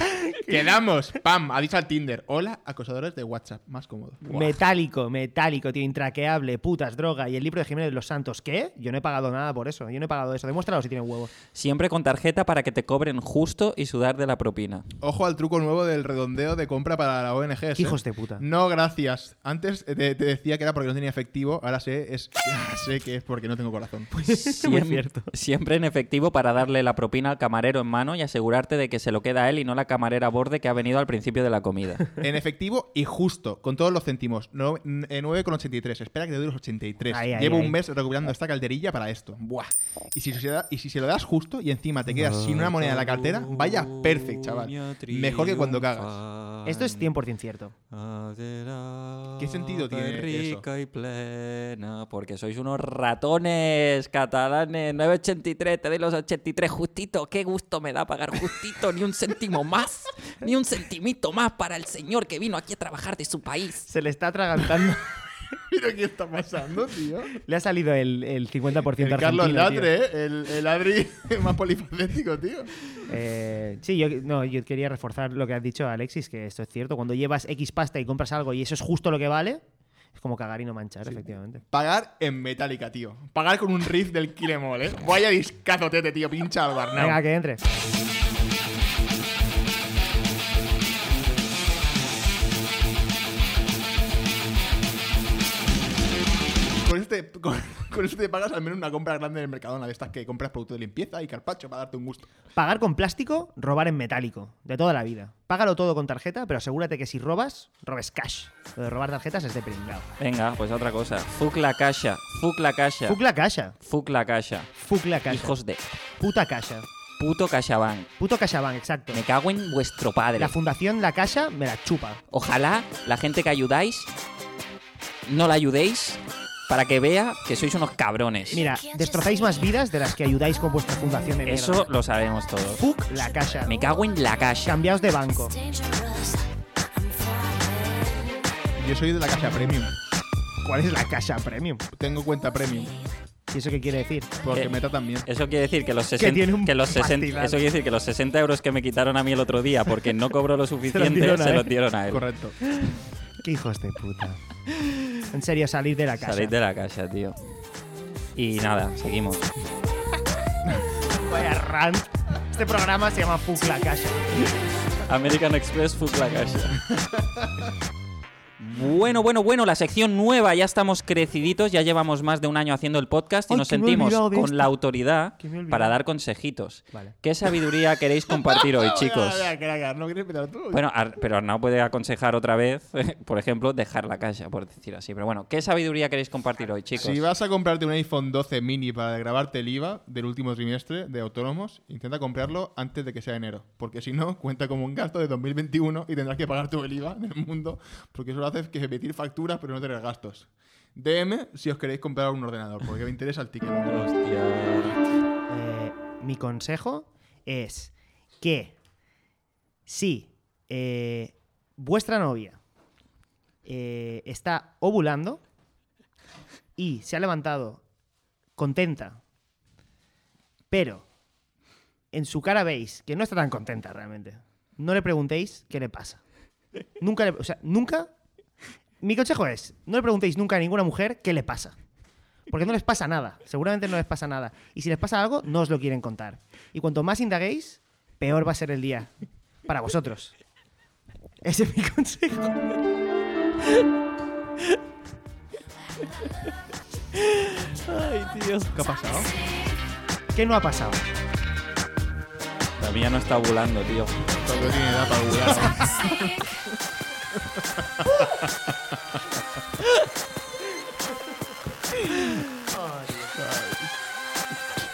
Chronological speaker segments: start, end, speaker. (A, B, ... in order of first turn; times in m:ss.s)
0:00.4-0:04.4 A
0:04.3-0:11.3 B
0:11.5-0:14.8 C
0:15.0-0:24.1 A
0:17.8-0:18.4 B
0:24.1-0:25.3 B
0:24.3-0:32.0 C
0:32.2-0:46.2 A
0:37.1-0:37.8 B
0:42.1-0:47.1 C
0:46.6-0:47.7 B
0:47.9-1:03.9 C
0:49.4-0:50.6 A
1:03.9-1:05.1 B
1:05.7-1:07.3 A
1:07.4-1:09.9 B
1:08.9-1:12.7 A
1:13.1-1:19.6 B
1:20.1-1:21.6 B
1:21.7-1:27.2 A
1:27.0-1:27.6 B
1:36.8-1:42.3 A
1:42.5-1:50.1 B
1:50.2-1:53.2 C
1:53.0-1:53.7 B
1:53.8-1:54.7 C
1:54.8-1:55.6 B
1:55.3-1:55.8 C
1:56.2-1:56.9 B
1:57.2-1:58.1 C
1:58.2-1:59.2 B
1:59.1-2:00.5 C
2:00.4-2:02.2 B
2:02.3-2:04.1 C
2:05.3-2:08.6 C
2:08.5-2:11.9 B
2:11.4-2:12.8 C
2:12.8-2:13.8 B
2:13.6-2:14.8 C
2:14.6-2:15.6 B
2:18.8-2:19.9 A
2:20.6-2:21.8 B
2:21.9-2:23.0 A
2:23.5-2:24.3 B
2:24.4-2:25.3 A
2:25.2-2:32.2 C
2:26.2-2:27.6 B
2:30.9-2:31.7 B
2:32.1-2:32.6 A
2:32.8-2:34.4 B
2:35.3-2:36.5 B
2:36.2-2:37.4 C
2:38.4-2:39.5 C
2:41.1-2:44.6 B
2:45.1-2:46.8 C
2:47.1-2:47.5 A
2:48.6-2:59.5 C
2:53.5-2:54.8 B
2:55.4-2:56.0 B
2:58.3-3:00.8 A
3:00.7-3:07.3 C
3:07.0-3:24.1 A
3:23.9-3:25.0 C
3:25.5-3:28.7 B
3:29.9-3:32.6 B
3:33.6-3:35.4 B
3:36.8-3:37.8 B
3:38.6-3:39.2 B
3:40.7-3:41.0 B
3:42.1-3:46.2 B
3:47.0-3:48.1 B
3:49.0-3:51.8 B
3:52.5-3:59.1 B
3:59.7-4:00.3 B
4:01.4-4:02.7 B
4:07.7-4:08.7 C
4:08.7-4:09.3 A
4:10.3-4:11.2 B
4:12.8-4:14.2 C
4:14.4-4:16.4 A
4:17.8-4:18.5 A
4:23.3-4:23.9 A